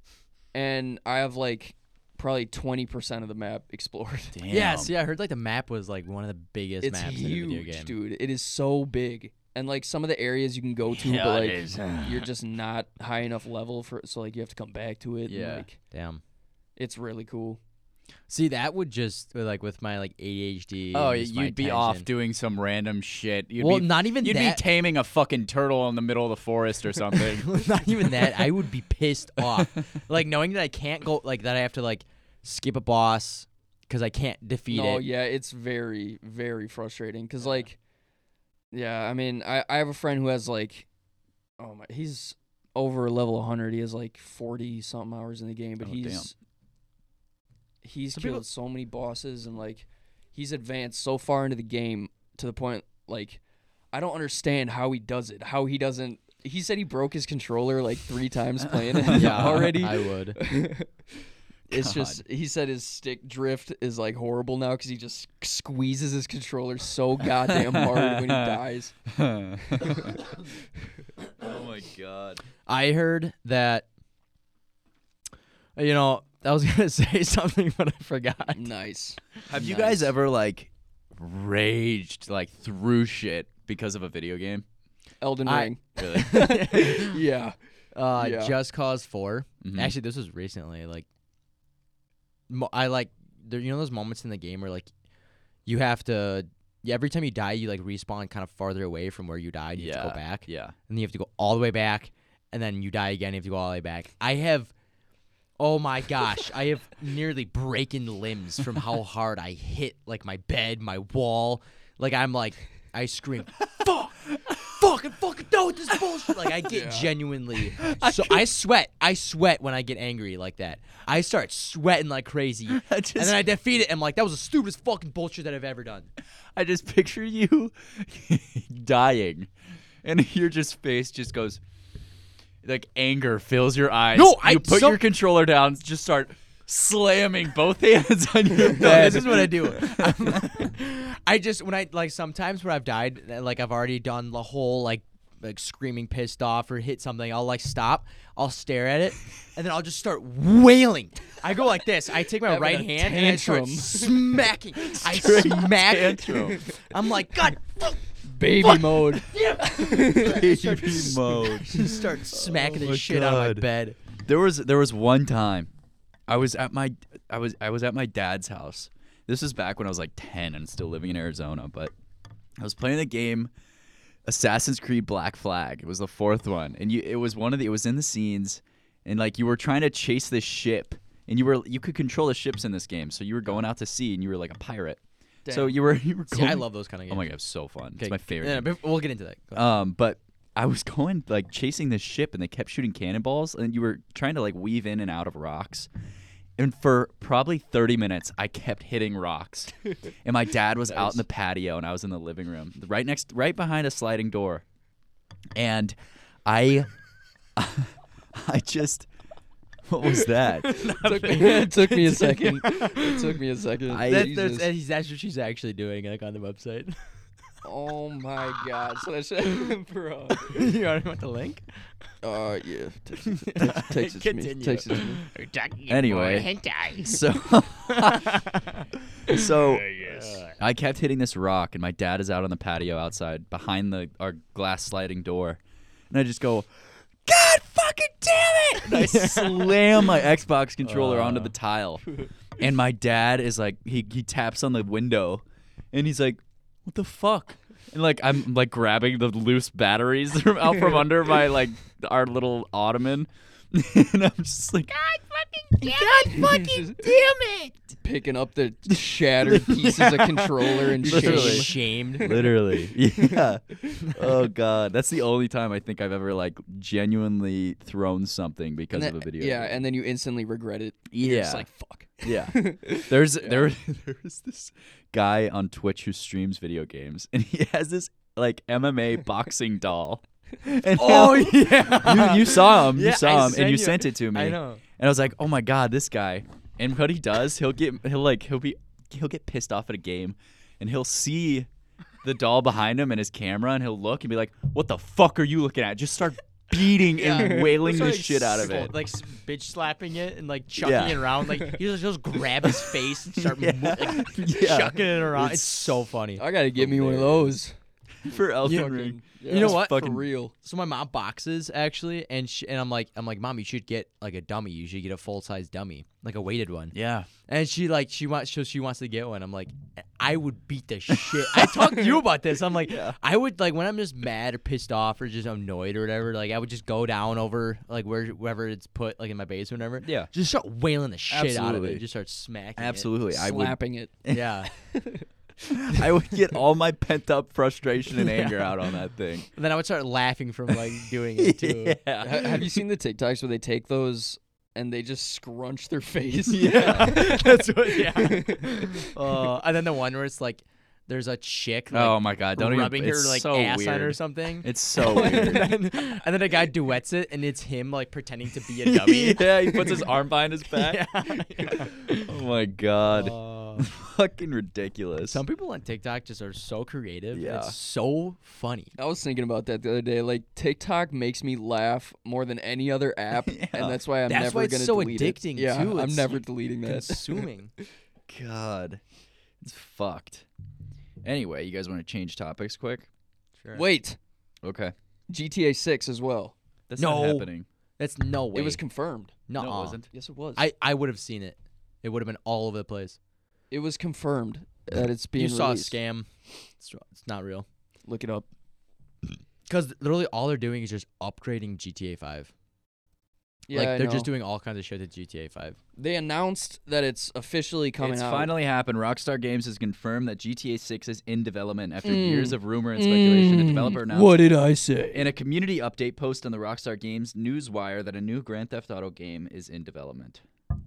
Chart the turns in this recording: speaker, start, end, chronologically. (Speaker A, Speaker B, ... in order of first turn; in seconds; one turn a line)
Speaker A: 0.5-4.4
Speaker B: 4.3-4.9
Speaker C: 4.5-7.9
Speaker A: 6.8-15.8
Speaker B: 10.9-12.3
Speaker B: 15.3-15.7
Speaker C: 15.8-16.2
Speaker A: 16.8-17.6
Speaker C: 18.3-22.1
Speaker B: 20.9-27.6
Speaker C: 23.6-24.6
Speaker C: 27.4-35.0
Speaker A: 34.7-37.8
Speaker A: 38.7-40.9
Speaker A: 41.6-46.3
Speaker B: 45.8-46.3
Speaker A: 47.8-53.4
Speaker C: 48.1-48.4
Speaker A: 53.9-61.1
Speaker B: 58.9-59.8
Speaker C: 59.1-60.4
Speaker A: 61.7-68.9
Speaker B: 61.7-62.2
Speaker B: 67.5-70.5
Speaker A: 69.7-70.2
Speaker B: 71.4-72.4
Speaker C: 72.7-73.9
Speaker C: 75.8-78.7
Speaker A: 78.5-79.4
Speaker B: 79.5-84.7
Speaker C: 79.5-80.1
Speaker A: 85.2-87.6
Speaker C: 85.5-87.2
Speaker B: 86.0-86.4
Speaker C: 87.9-91.1
Speaker A: 88.2-88.5
Speaker B: 89.6-89.9
Speaker C: 92.5-94.9
Speaker C: 95.7-104.7
Speaker B: 99.8-100.8
Speaker C: 105.6-126.1
Speaker A: 116.7-117.1
Speaker B: 117.8-118.5
Speaker B: 122.7-123.4
Speaker B: 126.5-129.5
Speaker B: 130.0-131.6
Speaker B: 132.6-140.7
Speaker C: 134.1-135.0
Speaker C: 138.7-158.0
Speaker A: 152.4-154.3
Speaker B: 154.8-156.6
Speaker A: 158.2-160.5
Speaker C: 158.6-164.0
Speaker B: 160.1-163.7
Speaker B: 164.2-165.7
Speaker B: 166.3-171.9
Speaker B: 172.6-173.5
Speaker B: 174.2-188.7
Speaker A: 185.5-185.8
Speaker C: 186.3-187.3
Speaker C: 188.0-189.7
Speaker B: 189.6-195.9
Speaker B: 196.6-204.6
Speaker B: 205.6-206.9
Speaker B: 207.6-209.1
Speaker B: 209.9-210.8
Speaker C: 210.6-213.2
Speaker A: 210.8-214.7
Speaker B: 213.9-214.4
Speaker C: 214.1-217.0
Speaker A: 217.6-220.7
Speaker C: 220.5-221.7
Speaker A: 222.2-225.2
Speaker C: 223.3-227.2
Speaker B: 225.9-228.4
Speaker C: 227.9-230.6
Speaker B: 229.3-230.0
Speaker B: 230.6-235.6
Speaker B: 236.1-257.9
Speaker C: 238.8-240.1
Speaker C: 240.8-241.5
Speaker A: 255.8-257.0
Speaker A: 258.0-264.1
Speaker B: 258.9-260.3
Speaker C: 260.7-262.3
Speaker B: 261.0-261.7
Speaker B: 262.2-269.8
Speaker A: 268.9-273.7
Speaker B: 271.1-271.7
Speaker B: 272.2-291.7
Speaker C: 280.9-284.8
Speaker B: 292.2-298.9
Speaker C: 297.2-306.4
Speaker A: 297.2-297.8
Speaker B: 300.8-301.3
Speaker B: 303.3-305.0
Speaker A: 305.3-307.7
Speaker B: 306.8-307.5
Speaker C: 307.0-307.4
Speaker B: 308.2-310.2
Speaker A: 308.3-310.5
Speaker C: 309.5-310.0
Speaker C: 310.6-316.9
Speaker B: 316.9-317.3
Speaker C: 317.5-333.1
Speaker B: 321.5-321.8
Speaker B: 322.7-323.2
Speaker B: 330.0-330.3
Speaker B: 331.3-332.0
Speaker B: 332.8-334.4
Speaker A: 333.3-335.3
Speaker C: 334.3-334.7
Speaker B: 335.9-339.5
Speaker C: 338.2-338.8
Speaker C: 339.5-342.0
Speaker B: 340.7-342.8
Speaker A: 342.2-349.3
Speaker B: 346.5-347.2
Speaker C: 346.6-360.0
Speaker B: 349.1-349.6
Speaker B: 351.9-355.7
Speaker A: 355.0-355.7
Speaker B: 358.8-361.1
Speaker C: 360.8-362.3
Speaker B: 362.1-365.4
Speaker C: 363.1-363.9
Speaker C: 365.3-368.9
Speaker B: 367.3-367.8
Speaker A: 369.0-377.5
Speaker B: 373.5-374.0
Speaker C: 374.3-377.7
Speaker B: 378.3-379.0
Speaker B: 379.6-380.5
Speaker B: 381.2-383.1
Speaker A: 383.8-384.2
Speaker B: 384.6-384.9
Speaker A: 385.3-386.5
Speaker B: 386.9-387.7
Speaker C: 387.0-388.8
Speaker A: 388.5-389.4
Speaker C: 389.5-390.0
Speaker B: 389.6-390.1
Speaker A: 390.1-390.6
Speaker C: 390.6-393.2
Speaker A: 393.7-396.0
Speaker C: 395.4-396.3
Speaker C: 396.8-397.7
Speaker A: 398.1-398.5
Speaker C: 399.7-402.5
Speaker A: 403.7-404.3
Speaker C: 403.7-405.8
Speaker A: 406.0-408.5
Speaker B: 408.0-414.4
Speaker A: 412.0-415.3
Speaker B: 415.1-420.4